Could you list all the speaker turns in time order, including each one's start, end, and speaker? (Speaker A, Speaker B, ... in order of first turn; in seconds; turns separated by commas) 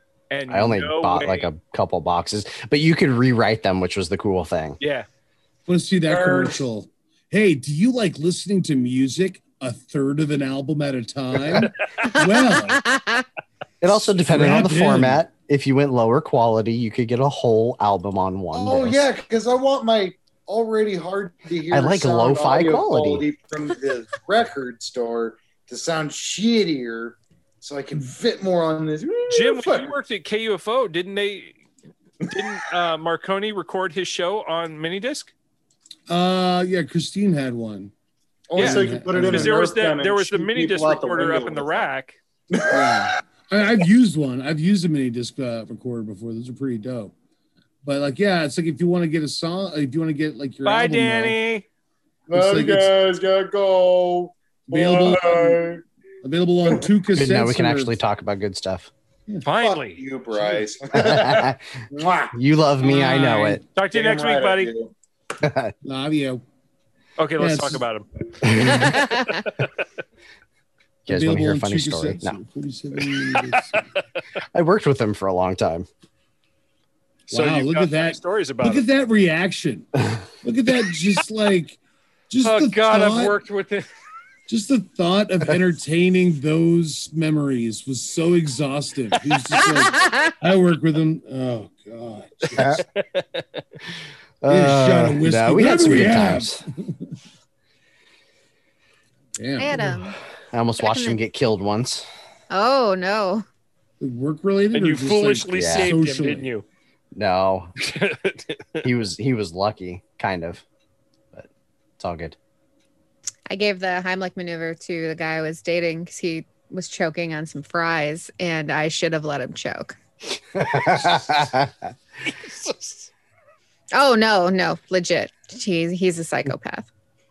Speaker A: 0.3-1.5, Speaker B: 0.5-4.8, Speaker A: 4.8-5.1, Speaker C: 5.7-12.9, Speaker D: 6.1-6.6, Speaker E: 12.1-13.2, Speaker B: 13.8-19.0, Speaker C: 13.9-15.3, Speaker D: 18.5-29.9, Speaker B: 21.7-23.2, Speaker A: 29.3-31.6, Speaker A: 32.3-35.3, Speaker C: 36.1-37.9, Speaker D: 38.5-41.9, Speaker A: 38.6-42.2, Speaker C: 38.6-39.7, Speaker D: 42.5-43.1, Speaker C: 42.7-47.1, Speaker C: 47.8-51.4, Speaker A: 50.6-51.6, Speaker D: 52.3-55.8, Speaker C: 52.3-52.9, Speaker C: 54.7-55.6, Speaker C: 56.2-58.0, Speaker B: 57.1-58.9, Speaker A: 59.4-60.0, Speaker D: 59.6-62.4, Speaker B: 60.9-61.6, Speaker B: 62.3-63.6, Speaker C: 63.1-63.4, Speaker A: 63.8-64.7, Speaker D: 63.9-64.9, Speaker B: 65.4-65.7, Speaker C: 65.8-66.4, Speaker A: 67.2-69.5, Speaker C: 67.4-67.8, Speaker B: 68.5-68.8, Speaker C: 71.1-73.8, Speaker B: 71.1-72.4, Speaker B: 74.5-75.9, Speaker C: 77.3-79.9, Speaker A: 77.3-78.8, Speaker C: 80.4-81.8, Speaker C: 82.3-83.4, Speaker A: 82.4-83.9, Speaker C: 84.5-92.8, Speaker B: 92.6-92.8, Speaker A: 92.7-93.4, Speaker B: 94.4-96.6, Speaker C: 94.5-97.0, Speaker C: 99.4-100.0, Speaker E: 99.6-100.2, Speaker B: 100.5-102.1, Speaker E: 100.8-101.2, Speaker E: 102.5-103.5, Speaker C: 104.0-106.5, Speaker A: 104.7-106.7, Speaker B: 105.6-105.9, Speaker B: 107.2-107.7, Speaker A: 107.8-108.8, Speaker B: 108.8-110.6, Speaker B: 111.3-112.4, Speaker E: 113.5-120.0, Speaker B: 120.5-121.9, Speaker A: 122.3-123.1, Speaker E: 123.9-126.9